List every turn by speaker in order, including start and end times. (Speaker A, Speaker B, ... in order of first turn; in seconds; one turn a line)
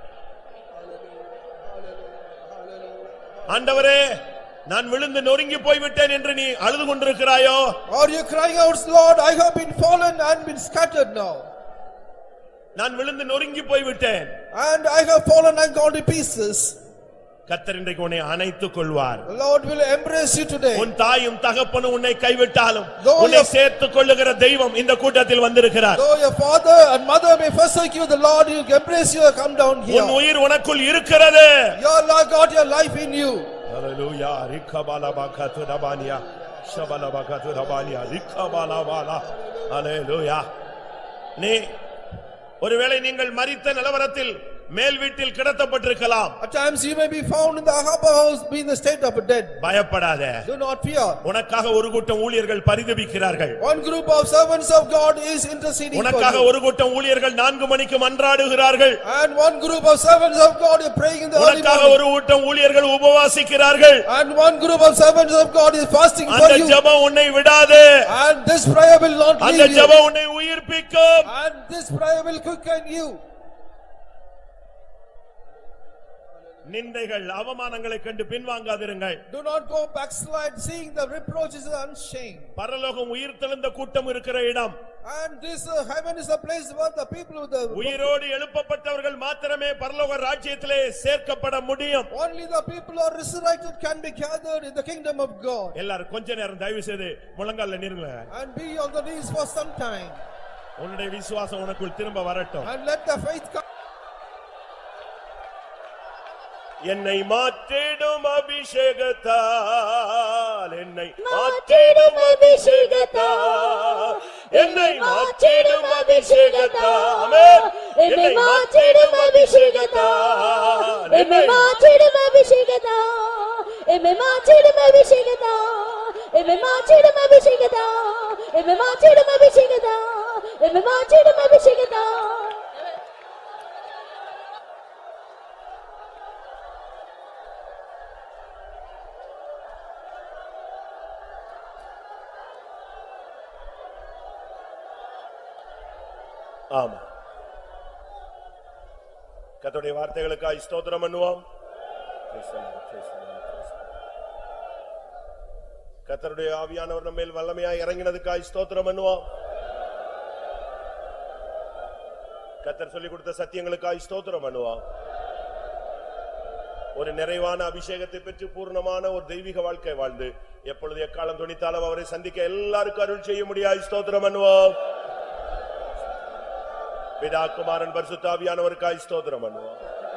Speaker A: 0.8-3.8
Speaker B: 3.5-4.2
Speaker B: 4.7-7.8
Speaker A: 7.9-11.5
Speaker B: 12.8-14.3
Speaker A: 14.5-16.8
Speaker B: 17.5-19.3
Speaker A: 19.3-20.9
Speaker B: 20.8-26.0
Speaker A: 23.0-23.5
Speaker A: 25.9-30.2
Speaker B: 29.9-31.8
Speaker A: 31.8-33.5
Speaker B: 33.7-40.5
Speaker A: 36.0-39.7
Speaker B: 41.4-41.7
Speaker B: 42.6-46.4
Speaker A: 46.4-49.6
Speaker B: 49.6-50.5
Speaker A: 50.5-51.2
Speaker B: 51.2-53.6
Speaker A: 53.6-56.5
Speaker B: 55.9-59.0
Speaker A: 59.0-62.0
Speaker B: 61.4-64.0
Speaker A: 64.1-66.8
Speaker B: 66.3-67.9
Speaker A: 68.1-70.0
Speaker B: 69.4-71.3
Speaker A: 71.3-73.2
Speaker B: 76.7-79.2
Speaker A: 79.3-82.5
Speaker B: 82.6-84.8
Speaker A: 85.0-88.2
Speaker B: 87.7-92.1
Speaker A: 92.1-95.8
Speaker B: 95.8-98.3
Speaker A: 98.3-100.2
Speaker B: 100.8-102.7
Speaker A: 102.6-103.6
Speaker B: 106.9-121.7
Speaker C: 111.2-132.7
Speaker B: 146.7-147.0
Speaker B: 149.6-151.4
Speaker B: 152.3-153.8
Speaker B: 156.1-159.2
Speaker B: 162.6-164.8
Speaker B: 167.0-174.8
Speaker B: 177.2-179.8